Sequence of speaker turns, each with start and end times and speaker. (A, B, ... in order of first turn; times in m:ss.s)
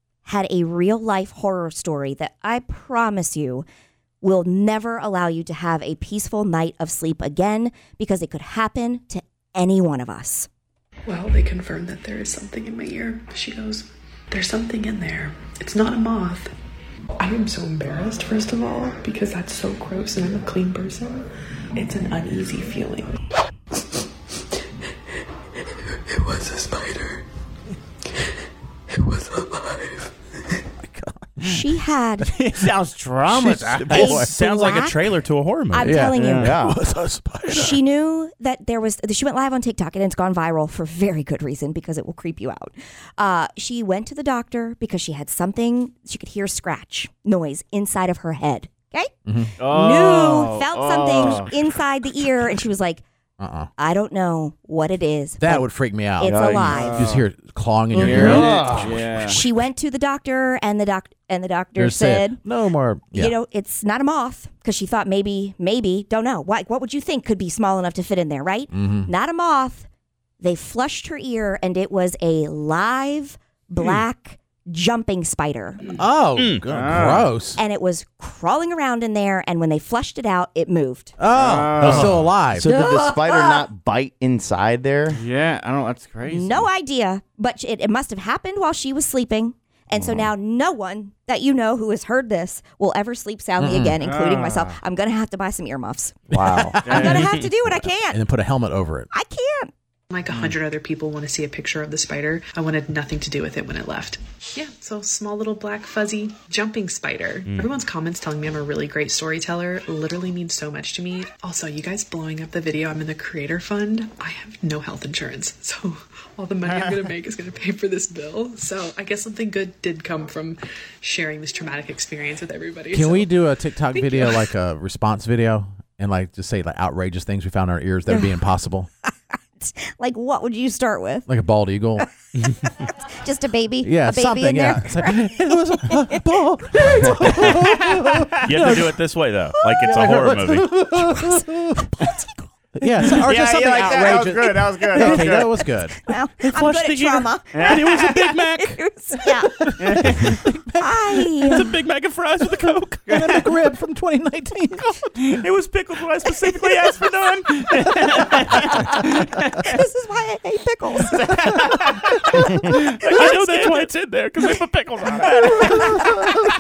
0:00.2-0:03.6 A
0:04.2-0:10.5 A
0:11.1-0:16.5 B
0:17.2-0:23.2 B
0:30.8-0:31.8 C
0:31.4-0:32.4 A
0:32.4-0:32.7 C
0:32.4-0:34.0 D
0:33.3-0:34.4 C
0:33.8-0:36.0 E
0:33.9-0:35.2 A
0:35.7-0:36.6 A
0:35.8-0:37.8 C
0:36.1-0:36.5 D
0:36.4-0:36.8 F
0:37.5-0:53.0 A
0:49.3-0:49.5 C
0:49.6-0:51.7 D
0:53.4-0:53.7 C
0:53.8-0:57.2 A
0:55.4-0:59.0 C
0:56.2-0:56.8 F
0:56.7-0:57.2 D
0:58.0-0:59.4 D
0:58.0-0:58.8 F
0:58.0-1:02.4 A
1:01.8-1:03.4 C
1:03.1-1:09.9 A
1:08.7-1:09.1 C
1:10.4-1:15.9 A
1:15.9-1:17.6 C
1:16.4-1:16.6 E
1:16.7-1:17.3 D
1:17.6-1:21.2 A
1:21.2-1:22.7 C
1:21.3-1:22.4 D
1:21.8-1:25.2 F
1:22.6-1:23.7 A
1:25.1-1:26.7 D
1:26.3-1:36.3 A
1:30.0-1:30.3 F
1:33.6-1:34.0 C
1:34.0-1:34.8 D
1:36.3-1:37.4 C
1:36.3-1:36.8 F
1:36.8-1:38.2 A
1:36.8-1:37.3 D
1:38.1-1:39.1 C
1:39.1-1:39.7 A
1:40.1-2:03.3 B
2:02.9-2:08.9 C
2:08.1-2:08.4 A
2:09.1-2:11.3 A
2:11.3-2:12.1 C
2:12.0-2:16.2 A
2:13.8-2:19.0 C
2:16.8-2:17.5 A
2:18.4-2:20.7 E
2:19.6-2:22.0 C
2:21.0-2:21.5 A
2:22.0-2:22.3 A
2:22.8-2:26.0 C
2:23.2-2:25.6 D
2:25.0-2:25.3 A
2:25.9-2:30.1 A
2:26.4-2:28.8 E
2:27.5-2:28.3 D
2:29.3-2:31.8 C
2:29.8-2:30.2 D
2:30.8-2:31.7 A
2:31.4-2:33.0 E
2:32.4-2:35.2 C
2:33.1-2:33.4 D
2:35.2-2:38.0 D
2:35.4-2:38.5 E
2:39.5-2:41.6 A
2:41.2-2:42.2 D
2:42.6-2:43.9 A
2:43.1-2:46.2 E
2:45.5-2:46.0 A